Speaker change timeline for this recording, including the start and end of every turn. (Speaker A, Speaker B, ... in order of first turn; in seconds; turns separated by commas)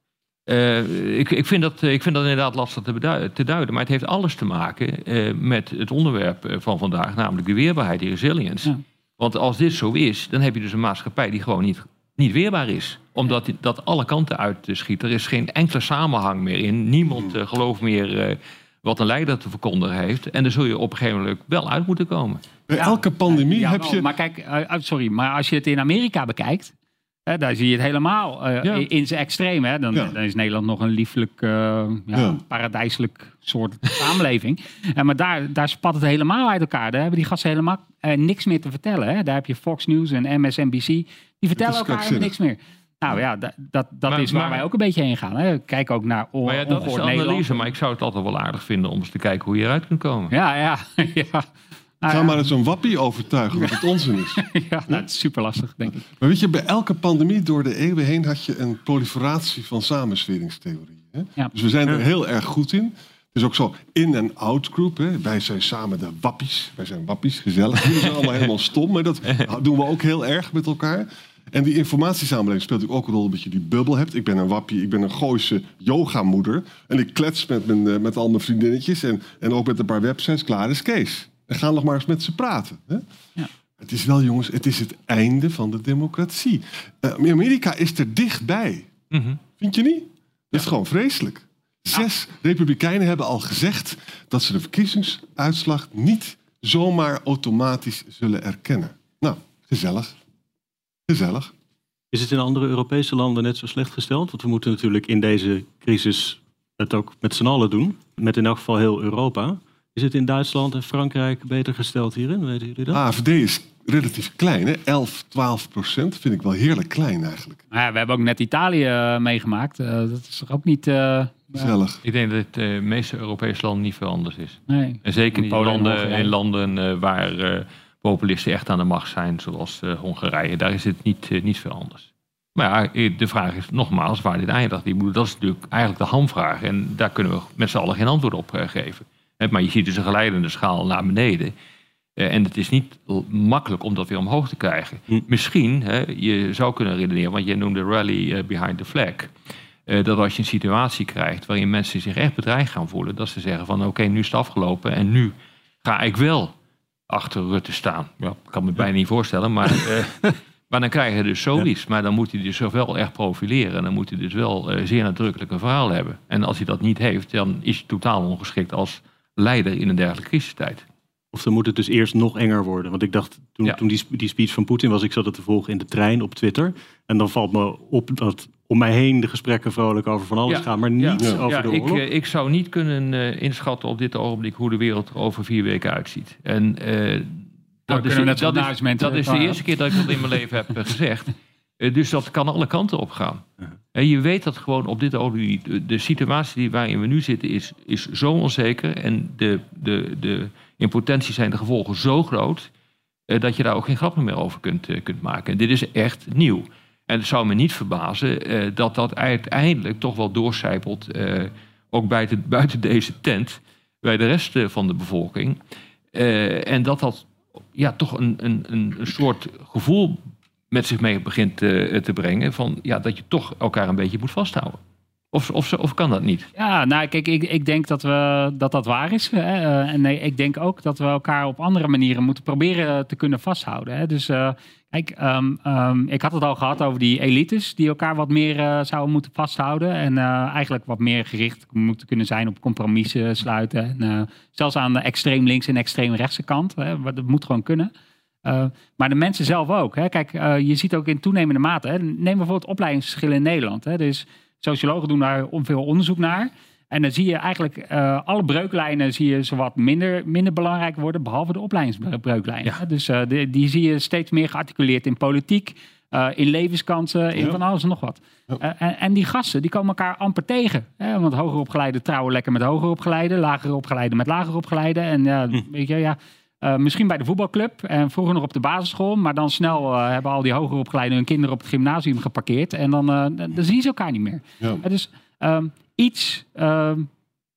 Speaker A: 0.5-22.4, Speaker B: 22.7-24.1, Speaker C: 22.8-26.7, Speaker C: 27.3-47.7, Speaker B: 32.1-32.4, Speaker B: 41.6-42.3, Speaker A: 44.1-44.7, Speaker A: 46.5-50.3, Speaker C: 50.3-51.5, Speaker C: 52.0-52.5, Speaker B: 52.1-55.0, Speaker C: 54.4-56.0, Speaker B: 56.1-83.0, Speaker B: 83.8-88.9, Speaker A: 89.1-89.4, Speaker B: 89.6-100.2, Speaker B: 101.1-101.5, Speaker D: 102.1-113.0, Speaker B: 112.9-117.6, Speaker C: 117.7-121.7, Speaker B: 121.5-122.0, Speaker A: 122.0-141.5, Speaker C: 124.7-126.3, Speaker A: 142.2-149.3, Speaker A: 149.9-156.5, Speaker A: 157.1-170.8, Speaker D: 171.3-182.0, Speaker A: 180.5-202.7, Speaker C: 187.9-189.6, Speaker A: 203.3-215.6, Speaker A: 216.1-224.8, Speaker A: 225.3-226.5, Speaker C: 226.6-247.9, Speaker C: 248.4-287.1